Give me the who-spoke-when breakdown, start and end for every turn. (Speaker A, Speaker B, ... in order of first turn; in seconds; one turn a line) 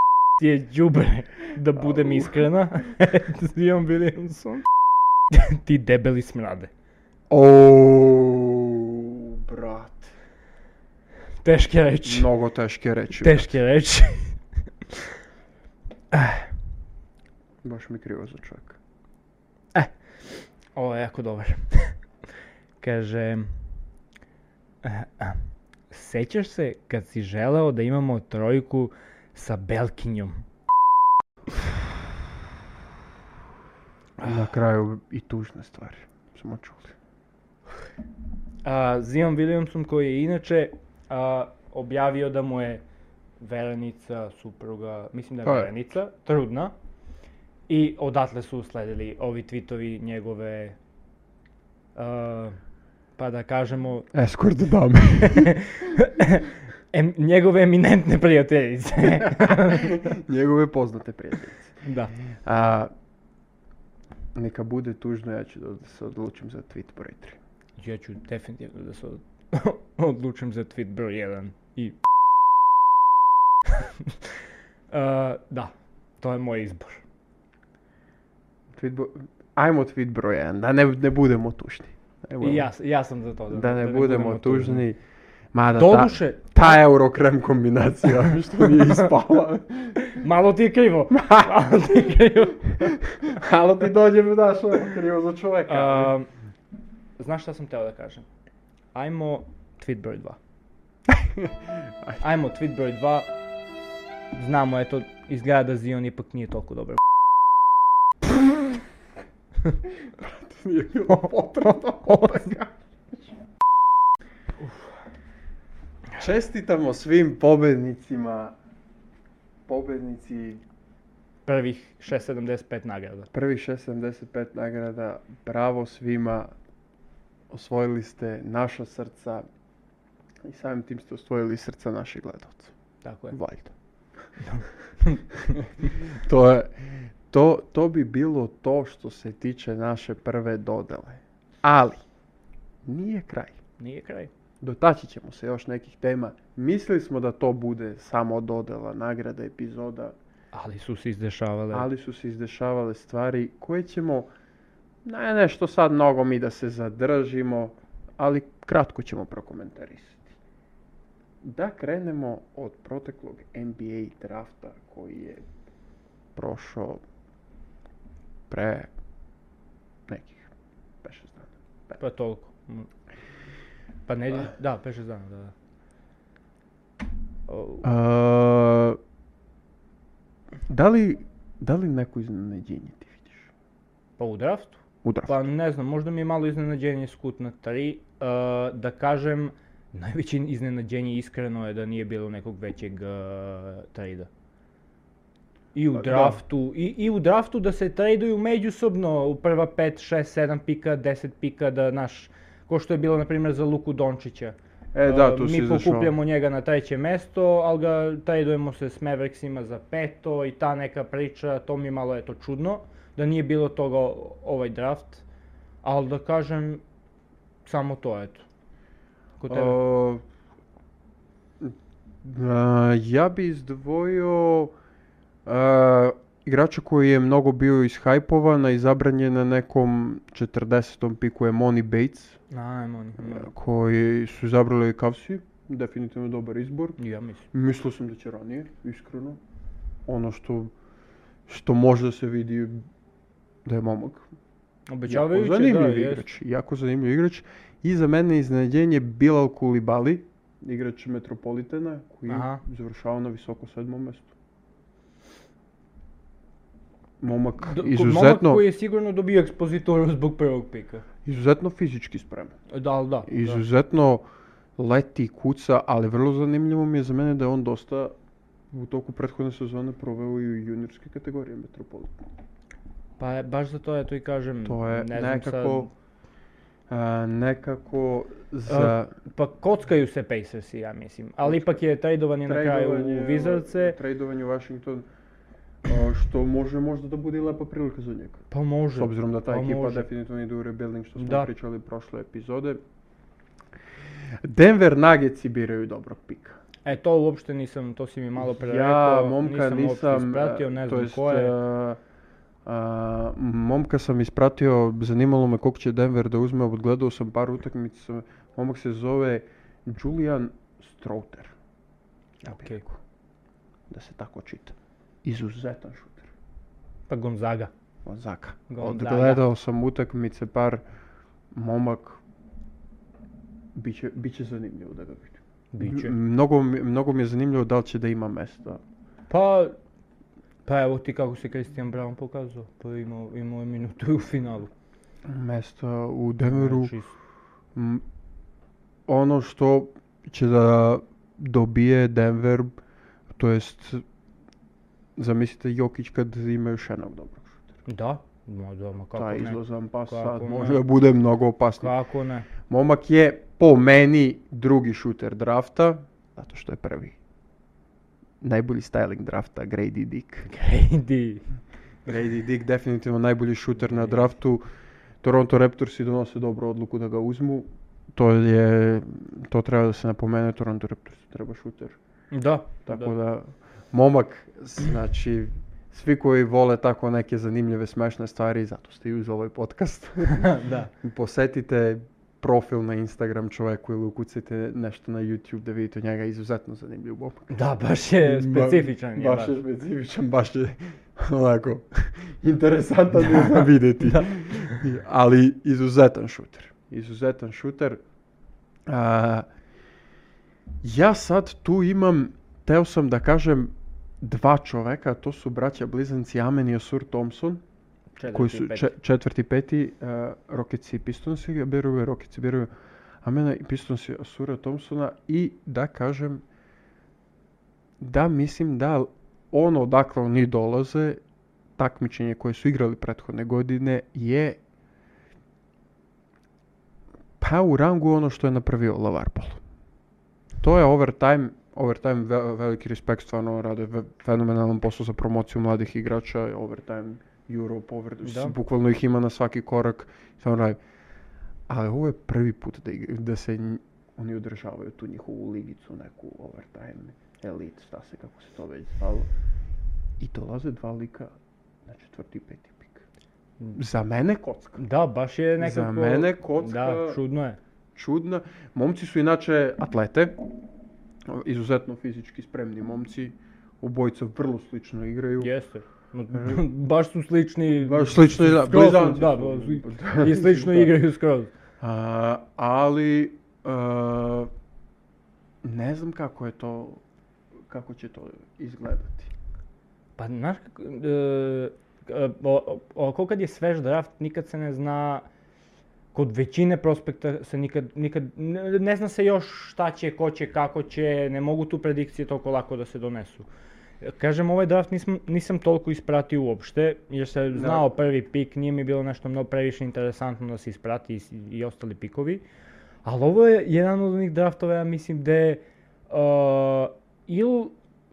Speaker A: 0.4-4.7
Speaker B: 1.8-2.4
Speaker A: 5.3-6.7
Speaker B: 7.3-10.1
Speaker A: 11.4-12.3
Speaker B: 12.1-13.6
Speaker A: 13.2-14.4
Speaker A: 16.1-16.5
Speaker B: 17.6-18.8
Speaker A: 20.8-22.0
Speaker A: 22.8-23.6
Speaker A: 24.8-25.4
Speaker A: 25.9-30.4
Speaker B: 34.2-37.0
Speaker A: 38.6-42.8
Speaker A: 43.4-46.7
Speaker B: 45.4-45.7
Speaker A: 47.7-50.8
Speaker A: 52.0-52.6
Speaker A: 53.2-54.1
Speaker B: 54.1-55.5
Speaker A: 55.2-60.0
Speaker B: 59.2-61.8
Speaker A: 61.8-62.1
Speaker B: 62.4-62.9
Speaker B: 64.3-67.4
Speaker A: 67.8-72.0
Speaker A: 73.8-74.1
Speaker A: 74.9-77.0
Speaker B: 78.7-82.7
Speaker A: 82.4-84.8
Speaker B: 83.5-85.0
Speaker B: 85.5-90.2
Speaker A: 85.8-86.8
Speaker A: 90.0-93.0
Speaker B: 91.1-91.6
Speaker B: 92.8-96.1
Speaker A: 95.7-96.3
Speaker A: 97.2-98.3
Speaker A: 98.9-100.4
Speaker B: 101.1-102.2
Speaker A: 102.2-103.3
Speaker A: 104.3-107.0
Speaker B: 110.1-113.3
Speaker A: 111.1-112.5
Speaker B: 116.2-118.5
Speaker B: 119.7-120.6
Speaker A: 121.5-123.3
Speaker B: 123.3-126.5
Speaker B: 127.5-129.5
Speaker B: 130.4-132.7
Speaker A: 133.0-133.4
Speaker B: 133.3-133.7
Speaker A: 134.4-135.6
Speaker B: 135.9-136.8
Speaker B: 137.3-142.0
Speaker B: 142.8-143.6
Speaker A: 143.8-144.3
Speaker B: 144.6-150.2
Speaker A: 150.5-151.9
Speaker B: 151.7-154.3
Speaker B: 155.0-160.4
Speaker B: 161.4-165.4
Speaker B: 166.3-167.0
Speaker B: 168.5-168.9
Speaker B: 170.1-170.5
Speaker B: 171.0-172.0
Speaker A: 172.0-172.9
Speaker A: 174.1-175.5
Speaker A: 177.5-177.9
Speaker B: 177.8-179.0
Speaker B: 180.7-183.5
Speaker A: 184.2-194.3
Speaker B: 185.0-185.4
Speaker A: 195.8-215.2
Speaker B: 195.9-196.4
Speaker B: 204.9-206.2
Speaker A: 215.8-216.8
Speaker A: 217.7-218.4
Speaker A: 219.4-219.8
Speaker B: 219.5-220.2
Speaker B: 221.6-224.7
Speaker B: 225.5-232.4
Speaker A: 232.5-233.5
Speaker B: 233.2-237.0
Speaker A: 237.0-237.4
Speaker B: 237.5-239.4
Speaker B: 240.1-240.7
Speaker B: 241.5-242.9
Speaker B: 243.7-244.3
Speaker A: 244.9-246.3
Speaker B: 245.1-254.3
Speaker A: 252.3-252.6
Speaker B: 257.2-258.6
Speaker A: 257.6-261.1
Speaker B: 261.2-262.6
Speaker A: 262.7-263.6
Speaker B: 263.3-264.3
Speaker B: 264.8-268.1
Speaker B: 268.7-272.1
Speaker A: 273.2-275.9
Speaker B: 274.6-275.9
Speaker B: 276.9-279.1
Speaker A: 278.7-284.0
Speaker B: 281.4-281.8
Speaker B: 282.4-285.1
Speaker B: 285.9-292.8
Speaker A: 288.5-290.1
Speaker A: 291.2-291.5
Speaker B: 294.4-296.6
Speaker A: 296.9-301.6
Speaker B: 298.4-302.0
Speaker B: 302.6-311.5
Speaker B: 312.4-313.0
Speaker A: 312.4-312.8
Speaker B: 313.9-316.3
Speaker A: 317.1-317.7
Speaker B: 318.1-320.8
Speaker A: 318.7-319.4
Speaker B: 321.5-322.2
Speaker B: 323.8-328.8
Speaker A: 325.7-326.1
Speaker A: 329.3-329.8
Speaker A: 330.7-334.7
Speaker B: 335.2-336.9
Speaker A: 336.5-337.1
Speaker B: 337.8-338.0
Speaker B: 339.1-342.8
Speaker B: 343.4-344.0
Speaker B: 345.2-347.8
Speaker A: 347.9-350.8
Speaker B: 349.1-351.9
Speaker A: 351.8-352.5
Speaker B: 352.7-357.2
Speaker B: 358.4-360.5
Speaker A: 360.5-361.5
Speaker B: 362.1-364.6
Speaker A: 363.9-364.2
Speaker B: 365.2-372.0
Speaker A: 372.3-373.1
Speaker B: 372.9-387.6
Speaker A: 380.3-380.9
Speaker A: 387.5-389.6
Speaker B: 388.2-398.0
Speaker A: 394.0-394.6
Speaker B: 398.9-399.5
Speaker B: 400.8-407.6
Speaker A: 408.2-408.9
Speaker B: 408.3-412.7
Speaker B: 413.2-416.4
Speaker B: 418.0-421.2
Speaker B: 421.8-424.6
Speaker B: 427.4-429.6
Speaker B: 430.6-440.8
Speaker A: 438.2-438.6
Speaker B: 441.7-449.3
Speaker B: 450.2-451.3
Speaker B: 451.9-453.1
Speaker B: 453.7-454.8
Speaker A: 454.8-457.6
Speaker B: 455.6-457.2
Speaker B: 457.9-460.4
Speaker B: 461.3-465.5
Speaker A: 465.4-471.5
Speaker B: 466.3-466.7
Speaker B: 467.8-471.0
Speaker B: 471.8-474.5
Speaker B: 475.6-477.0
Speaker B: 477.7-479.3
Speaker A: 480.2-485.2
Speaker A: 486.1-493.5
Speaker A: 494.0-502.4
Speaker B: 497.5-497.9
Speaker A: 503.1-507.7